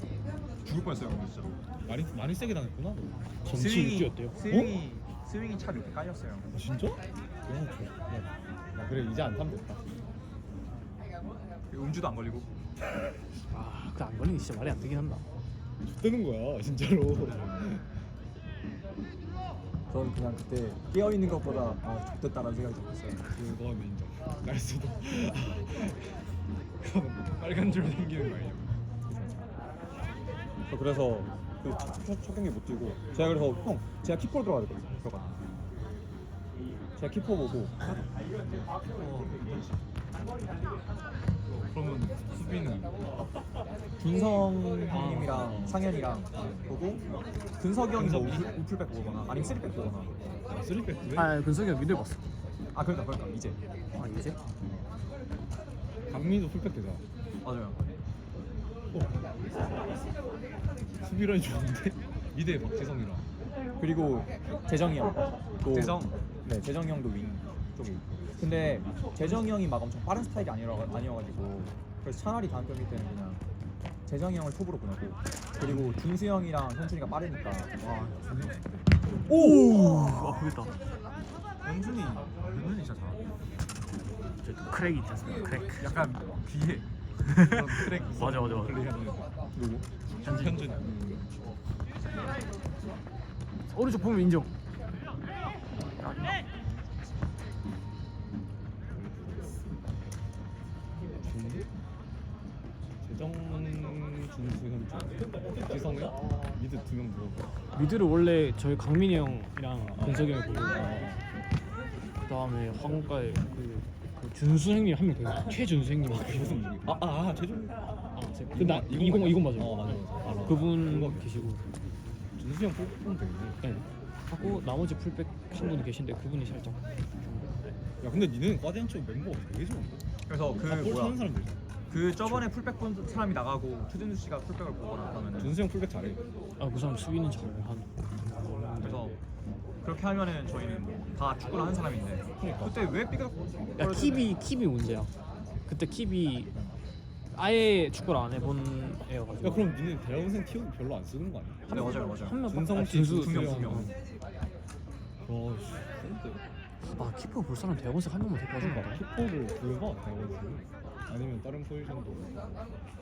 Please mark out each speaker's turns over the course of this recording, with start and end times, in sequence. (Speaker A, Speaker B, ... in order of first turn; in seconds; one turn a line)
Speaker A: 0.6-1.6
Speaker B: 1.8-3.3
Speaker C: 3.4-4.4
Speaker A: 3.5-6.5
Speaker B: 4.4-4.8
Speaker B: 6.5-9.8
Speaker A: 11.7-12.5
Speaker C: 13.5-15.2
Speaker B: 15.8-17.9
Speaker A: 19.9-23.3
Speaker B: 23.3-26.2
Speaker B: 26.8-29.3
Speaker A: 30.7-35.5
Speaker A: 37.0-37.7
Speaker B: 38.8-39.8
Speaker B: 41.7-42.9
Speaker A: 44.0-47.0
Speaker B: 44.9-45.9
Speaker B: 46.4-46.7
Speaker A: 47.6-50.3
Speaker B: 47.9-48.5
Speaker B: 50.5-51.4
Speaker C: 51.1-52.2
Speaker A: 52.7-53.6
Speaker C: 53.9-54.4
Speaker B: 56.1-57.0
Speaker A: 57.4-57.8
Speaker B: 61.0-63.3
Speaker A: 63.8-73.4
Speaker B: 65.7-66.2
Speaker B: 68.4-68.8
Speaker A: 74.1-78.3
Speaker B: 75.6-76.0
Speaker B: 78.3-78.6
Speaker A: 79.2-80.5
Speaker C: 79.3-80.8
Speaker B: 81.6-82.3
Speaker A: 82.3-83.2
Speaker C: 84.4-85.8
Speaker B: 85.8-89.3
Speaker A: 85.9-86.4
Speaker C: 87.2-88.9
Speaker A: 89.5-89.8
Speaker B: 90.2-91.2
Speaker C: 90.2-90.7
Speaker C: 93.7-94.5
Speaker B: 99.0-99.5
Speaker B: 101.2-101.7
Speaker B: 103.0-107.5
Speaker C: 107.7-110.9
Speaker B: 109.8-111.2
Speaker C: 112.2-116.6
Speaker B: 116.0-117.7
Speaker C: 118.2-121.6
Speaker B: 118.5-121.3
Speaker B: 122.3-123.8
Speaker C: 123.6-127.7
Speaker B: 128.0-131.6
Speaker A: 130.3-131.2
Speaker A: 131.9-135.6
Speaker B: 135.4-136.2
Speaker C: 136.6-138.9
Speaker A: 138.8-139.2
Speaker A: 139.8-144.3
Speaker B: 142.4-142.8
Speaker C: 143.8-145.1
Speaker C: 145.7-146.5
Speaker C: 147.3-149.7
Speaker B: 149.4-153.9
Speaker A: 151.7-152.4
Speaker C: 151.7-153.9
Speaker A: 153.2-153.9
Speaker B: 155.2-156.4
Speaker C: 156.8-159.0
Speaker B: 158.6-162.6